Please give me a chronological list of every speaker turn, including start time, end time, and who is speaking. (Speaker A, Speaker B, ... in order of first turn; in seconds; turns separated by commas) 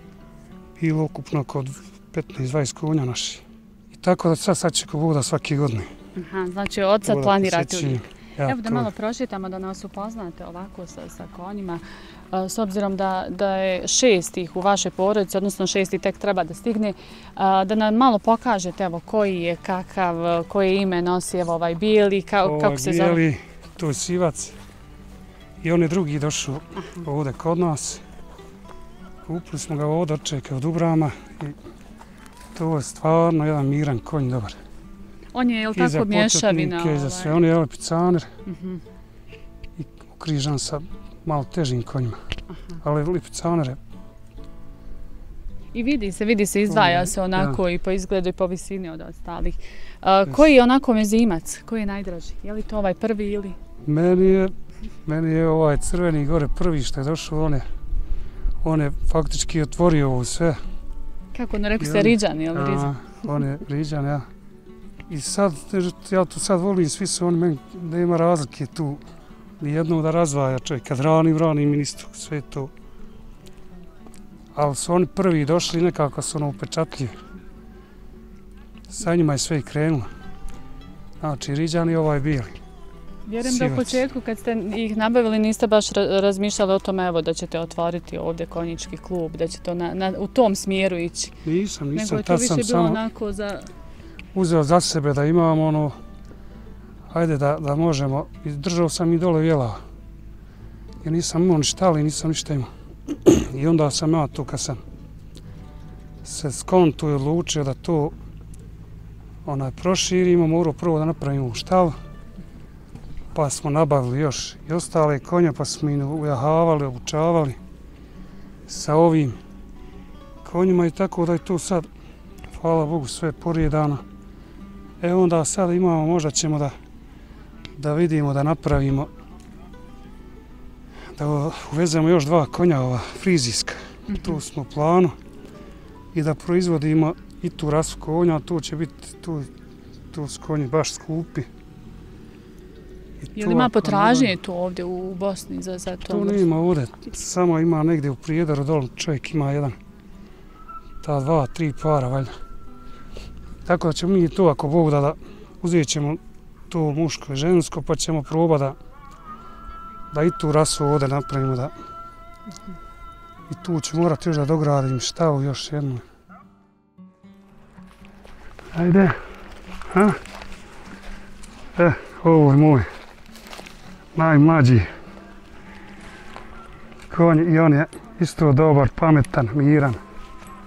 Speaker A: 0.8-5.9, Speaker B: 6.2-23.2, Speaker A: 7.0-8.9, Speaker A: 22.4-24.6, Speaker A: 25.6-28.0, Speaker A: 29.2-31.6, Speaker A: 32.5-34.5, Speaker B: 35.3-37.4, Speaker A: 35.7-38.3, Speaker B: 38.5-38.8, Speaker A: 39.8-42.2, Speaker B: 42.5-42.8, Speaker A: 42.8-43.8, Speaker B: 45.7-53.5, Speaker A: 46.7-47.6, Speaker A: 53.8-54.5, Speaker A: 55.0-57.6, Speaker A: 58.6-60.6, Speaker B: 61.3-62.9, Speaker A: 61.8-64.2, Speaker A: 65.1-69.0, Speaker A: 69.6-72.7, Speaker A: 74.5-77.1, Speaker A: 78.9-80.1, Speaker A: 81.2-82.5, Speaker B: 83.2-91.3, Speaker A: 83.4-84.0, Speaker A: 91.4-93.0, Speaker B: 91.9-93.7, Speaker A: 94.3-95.9, Speaker A: 97.1-99.8, Speaker A: 101.0-104.8, Speaker A: 106.2-108.1, Speaker A: 109.4-111.9, Speaker A: 113.3-117.6, Speaker A: 118.7-119.4, Speaker A: 120.4-121.8, Speaker A: 122.5-124.0, Speaker A: 125.0-126.7, Speaker A: 127.8-129.1, Speaker A: 131.2-135.1, Speaker B: 134.1-134.4, Speaker A: 136.1-139.5, Speaker A: 140.1-141.5, Speaker A: 143.2-144.3, Speaker B: 143.3-146.4, Speaker A: 146.1-149.8, Speaker A: 151.0-152.3, Speaker A: 153.6-158.8, Speaker A: 160.1-161.7, Speaker A: 163.5-166.0, Speaker A: 168.7-169.2, Speaker A: 169.9-170.2, Speaker A: 171.8-172.8, Speaker A: 174.1-174.8, Speaker A: 177.1-180.0